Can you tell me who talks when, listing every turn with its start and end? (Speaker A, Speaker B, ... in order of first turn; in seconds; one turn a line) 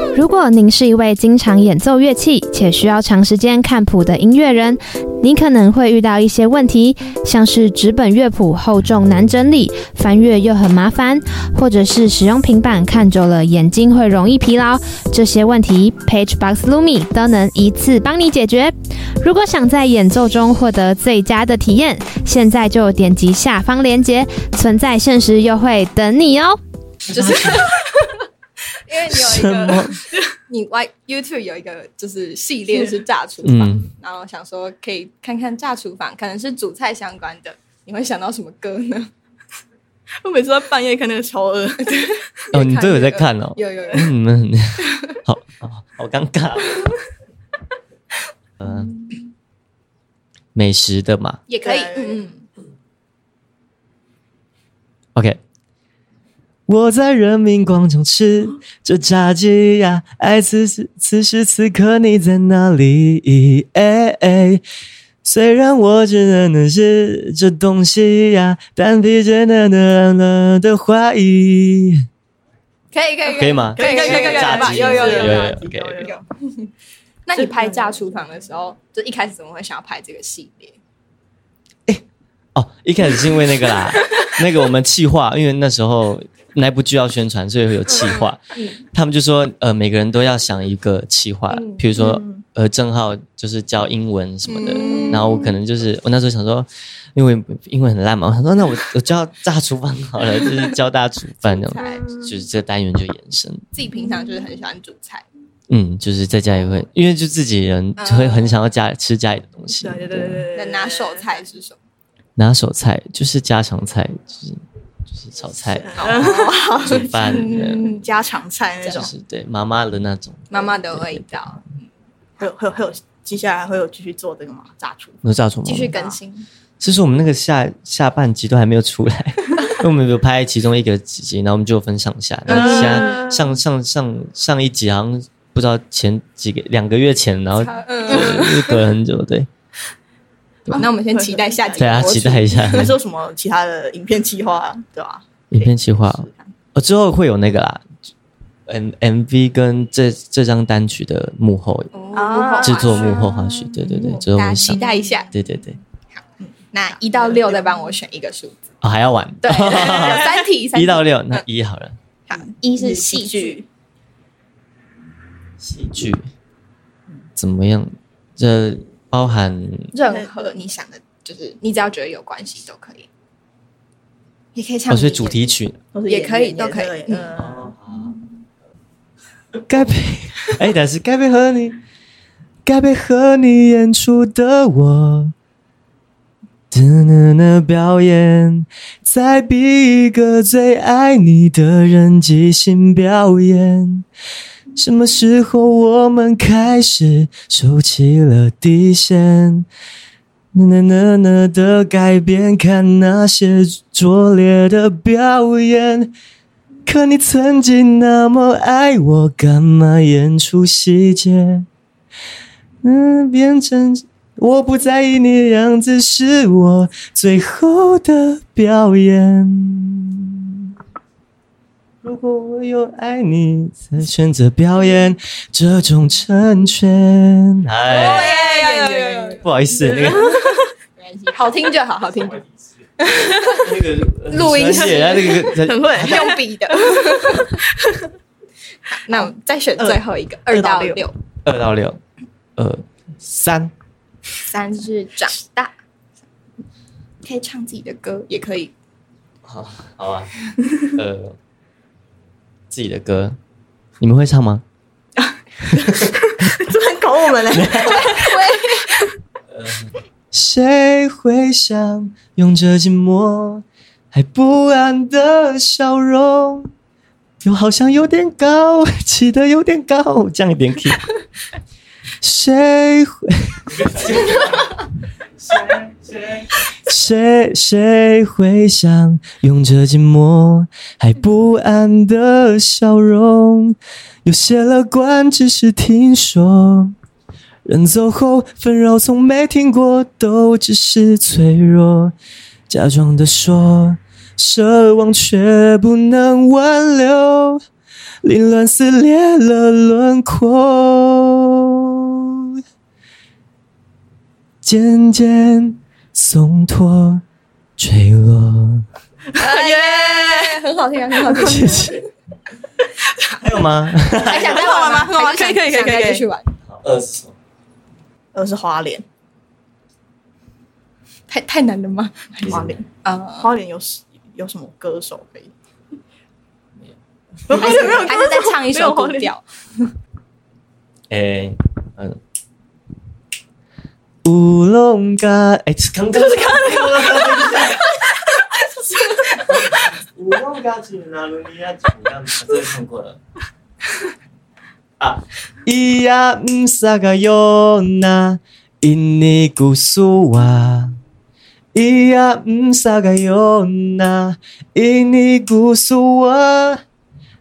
Speaker A: 0.1-26.6
Speaker B: 27.1-28.1
Speaker C: 27.1-27.6
Speaker B: 28.9-39.1
Speaker C: 29.1-30.0
Speaker D: 32.7-33.0
Speaker C: 33.4-33.9
Speaker D: 40.2-42.1
Speaker B: 41.9-44.1
Speaker C: 42.5-46.8
Speaker C: 48.6-48.9
Speaker C: 50.5-51.4
Speaker B: 51.5-52.4
Speaker D: 51.6-52.3
Speaker C: 55.1-55.4
Speaker C: 56.7-64.6
Speaker C: 65.2-72.0
Speaker B: 72.9-76.7
Speaker C: 73.3-76.1
Speaker D: 73.8-76.2
Speaker B: 77.2-80.8
Speaker D: 77.3-78.3
Speaker C: 82.5-103.6
Speaker B: 83.6-84.3
Speaker B: 87.9-88.8
Speaker B: 91.5-92.0
Speaker D: 92.0-92.4
Speaker B: 94.5-95.5
Speaker D: 94.7-95.4
Speaker B: 101.4-102.1
Speaker D: 101.7-102.3
Speaker B: 103.7-105.2
Speaker C: 105.7-110.5
Speaker B: 108.0-108.6
Speaker D: 109.8-111.4
Speaker B: 110.5-111.8
Speaker C: 112.4-117.9
Speaker D: 115.8-119.1
Speaker B: 116.0-118.1
Speaker B: 118.8-119.1
Speaker C: 118.9-121.6
Speaker B: 120.5-121.8
Speaker D: 122.4-125.2
Speaker C: 125.2-126.0
Speaker B: 125.6-126.5
Speaker D: 125.9-126.2
Speaker C: 126.8-139.5
Speaker B: 132.5-133.3
Speaker D: 132.5-133.4
Speaker B: 137.5-138.8
Speaker D: 140.7-146.5
Speaker B: 140.7-142.9
Speaker C: 141.8-143.0
Speaker C: 145.5-147.8
Speaker C: 148.7-151.9
Speaker B: 151.9-155.3
Speaker D: 152.1-153.3
Speaker C: 152.6-155.8
Speaker D: 153.8-155.4
Speaker D: 156.4-158.0
Speaker B: 156.7-158.7
Speaker C: 158.8-162.0
Speaker B: 159.4-161.4
Speaker D: 159.9-160.4
Speaker B: 162.3-163.6
Speaker D: 162.3-163.7
Speaker C: 165.6-166.3
Speaker C: 167.3-169.9
Speaker B: 169.9-173.1
Speaker D: 170.1-170.3
Speaker B: 174.5-175.5
Speaker C: 174.9-175.8
Speaker D: 175.9-178.1
Speaker B: 176.1-177.3
Speaker C: 177.3-178.1
Speaker C: 179.7-181.8
Speaker C: 182.7-185.3
Speaker C: 186.7-194.1
Speaker C: 194.8-199.7
Speaker C: 200.5-206.1
Speaker C: 206.8-211.7
Speaker C: 212.8-220.7
Speaker C: 222.0-230.4
Speaker B: 227.9-232.4
Speaker D: 227.9-229.0
Speaker D: 229.9-230.6
Speaker B: 233.0-233.7
Speaker C: 233.2-236.4
Speaker B: 234.3-237.6
Speaker D: 234.7-238.1
Speaker B: 238.9-241.1
Speaker D: 239.1-241.0
Speaker C: 241.4-242.0
Speaker C: 242.6-243.7
Speaker B: 244.4-245.7
Speaker B: 247.2-248.7
Speaker C: 249.4-250.3
Speaker C: 250.9-251.4
Speaker C: 252.7-253.4
Speaker C: 254.0-254.6
Speaker D: 255.2-259.0
Speaker C: 255.7-256.6
Speaker C: 257.5-258.2
Speaker B: 257.8-259.0
Speaker C: 259.5-266.7
Speaker C: 267.4-271.0
Speaker C: 272.2-274.5
Speaker C: 275.5-286.9
Speaker C: 287.6-292.1
Speaker C: 292.7-297.6
Speaker C: 298.2-302.6
Speaker C: 304.6-307.2
Speaker C: 307.8-308.8
Speaker D: 309.3-310.6
Speaker B: 309.3-312.0
Speaker D: 311.2-311.6
Speaker C: 311.3-312.0
Speaker C: 313.4-314.8
Speaker B: 314.2-316.5
Speaker D: 314.3-316.2
Speaker C: 316.6-317.3
Speaker D: 318.3-319.0
Speaker B: 321.3-323.5
Speaker C: 322.4-322.8
Speaker D: 322.5-322.9
Speaker D: 323.4-325.5
Speaker D: 327.5-329.3
Speaker C: 327.5-328.1
Speaker B: 327.5-329.9
Speaker C: 331.1-332.2
Speaker C: 334.2-338.0
Speaker D: 336.3-336.6
Speaker D: 337.2-337.7
Speaker D: 338.3-339.4
Speaker C: 339.4-343.2
Speaker C: 345.0-351.0
Speaker C: 351.7-356.8